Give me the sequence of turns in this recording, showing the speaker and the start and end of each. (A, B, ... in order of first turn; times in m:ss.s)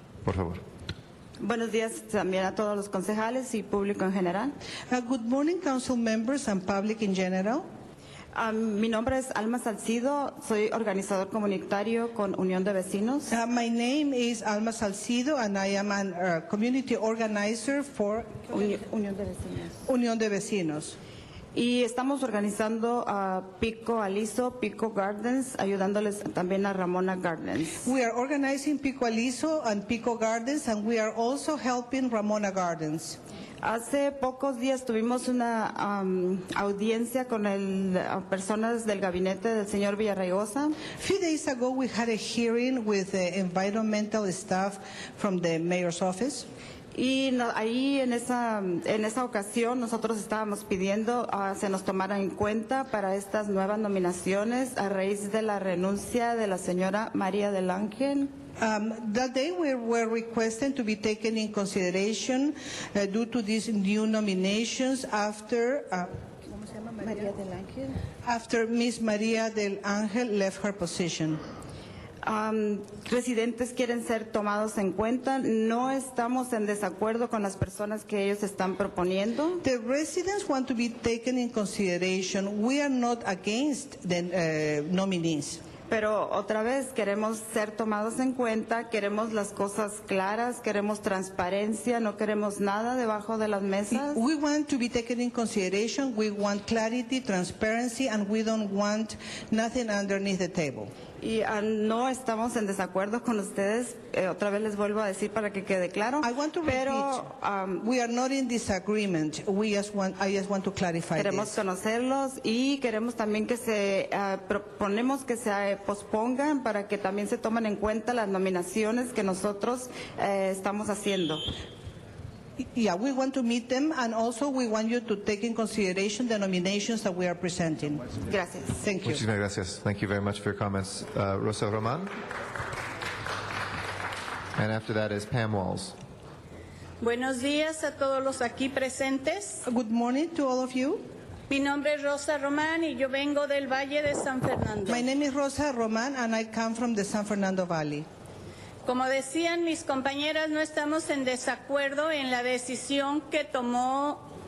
0:00.2-0:00.6 A
0:01.4-0:04.5 B
0:04.9-0:07.7 C
0:08.3-0:13.3 B
0:13.3-0:18.5 C
0:18.5-0:19.8 B
0:19.9-0:21.0 C
0:21.5-0:27.9 B
0:27.8-0:33.2 C
0:33.6-0:40.8 B
0:40.9-0:46.5 C
0:46.9-0:58.4 B
0:58.6-1:07.3 C
1:07.0-1:07.9 B
1:08.2-1:11.4 C
1:12.2-1:19.6 B
1:19.6-1:25.6 C
1:25.9-1:34.2 B
1:33.9-1:40.9 C
1:41.2-1:47.8 B
1:46.2-1:47.3 C
1:47.8-1:51.6 C
1:51.2-2:01.4 B
2:02.6-2:08.1 C
2:08.3-2:08.8 B
2:08.8-2:09.2 C
2:09.0-2:12.1 A
2:14.6-2:16.0 A
2:17.0-2:19.6 D
2:19.7-2:21.0 C
2:21.5-2:25.0 D
2:24.9-2:28.1 C
2:28.8-2:34.3 D